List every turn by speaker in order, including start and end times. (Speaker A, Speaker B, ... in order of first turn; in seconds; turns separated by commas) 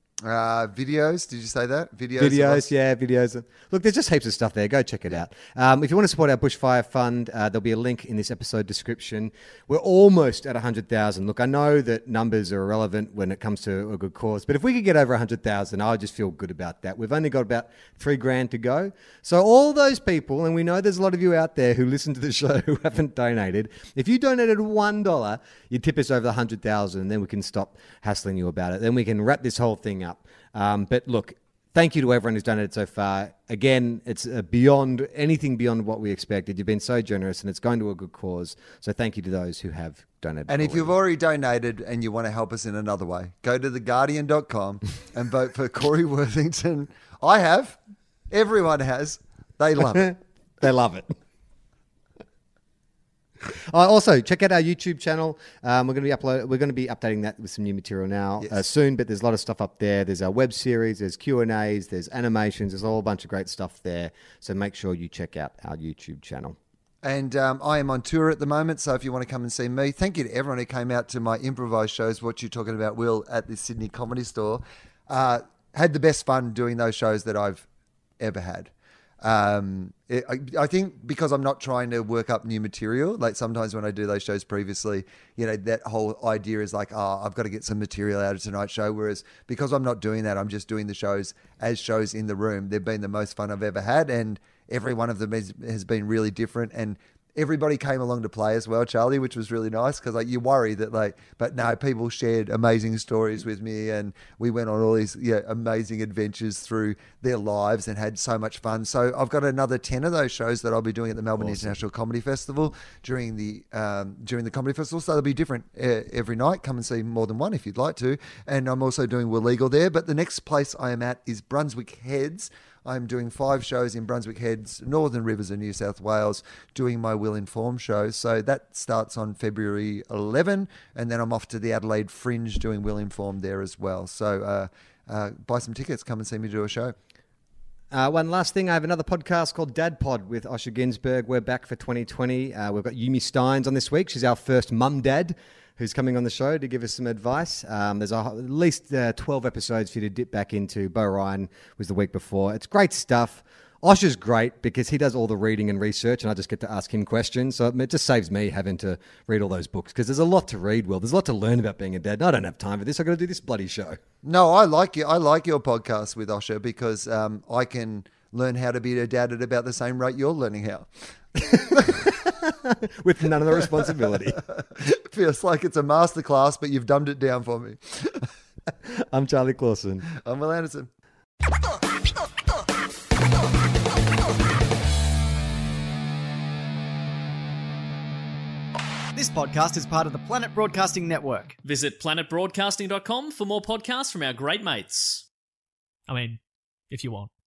Speaker A: 0.2-2.7, Speaker B: 2.2-41.0, Speaker A: 40.5-47.8, Speaker A: 48.3-50.1, Speaker B: 49.9-51.1, Speaker B: 53.7-66.5, Speaker A: 67.0-77.7, Speaker A: 78.2-136.9, Speaker B: 111.4-111.7, Speaker B: 137.9-164.0, Speaker A: 164.2-172.1, Speaker B: 171.5-174.4, Speaker A: 173.5-178.3, Speaker B: 178.8-180.1, Speaker A: 180.1-180.9, Speaker C: 189.1-191.6, Speaker D: 191.6-195.2, Speaker D: 196.1-196.4, Speaker D: 196.9-197.3